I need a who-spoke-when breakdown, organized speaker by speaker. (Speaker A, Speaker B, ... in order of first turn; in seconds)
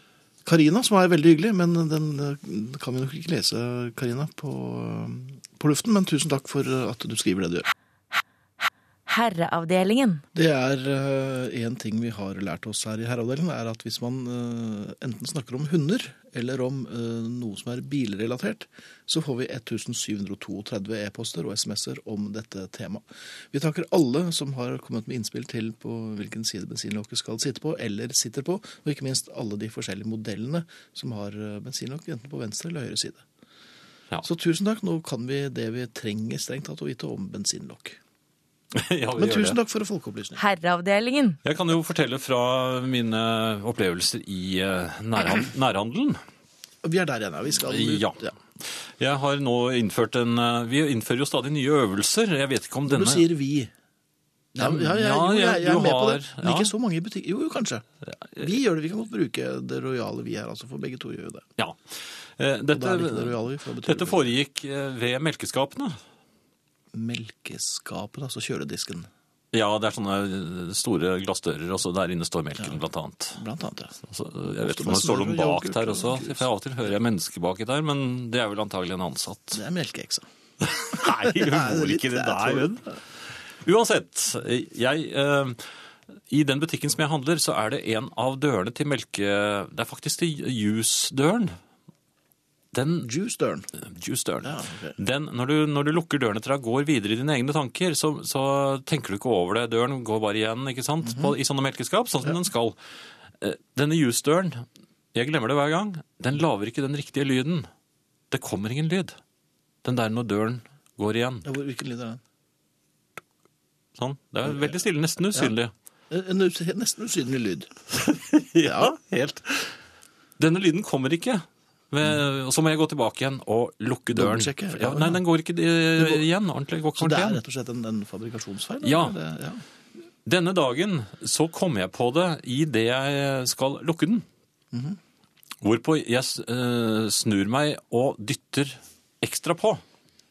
Speaker A: 0.5-7.7, 10.3-33.2, 34.2-38.0, 39.2-40.4, 46.8-48.4, 52.9-53.7, 54.6-57.9, 58.4-61.5, 62.7-64.3, 66.9-69.1, 73.4-74.0, 74.6-76.4, 79.5-80.2, 80.9-82.7, 93.0-93.7, 94.4-95.0, 111.5-112.2, 116.1-117.7, 118.6-118.9, 124.1-125.2, 127.0-129.6, 134.7-135.0
Speaker B: 9.1-10.2, 40.4-41.4
Speaker C: 38.7-39.6, 41.4-46.2, 47.6-53.2, 54.6-56.7, 61.6-66.0, 69.5-73.4, 74.0-79.6, 80.6-83.0, 83.6-85.6, 86.3-91.5, 92.7-93.1, 93.8-102.8, 103.4-107.7, 108.3-109.2, 109.8-111.5, 114.0-115.7, 117.9-119.8, 120.4-127.4, 128.8-129.2, 130.2-134.3, 135.6-139.8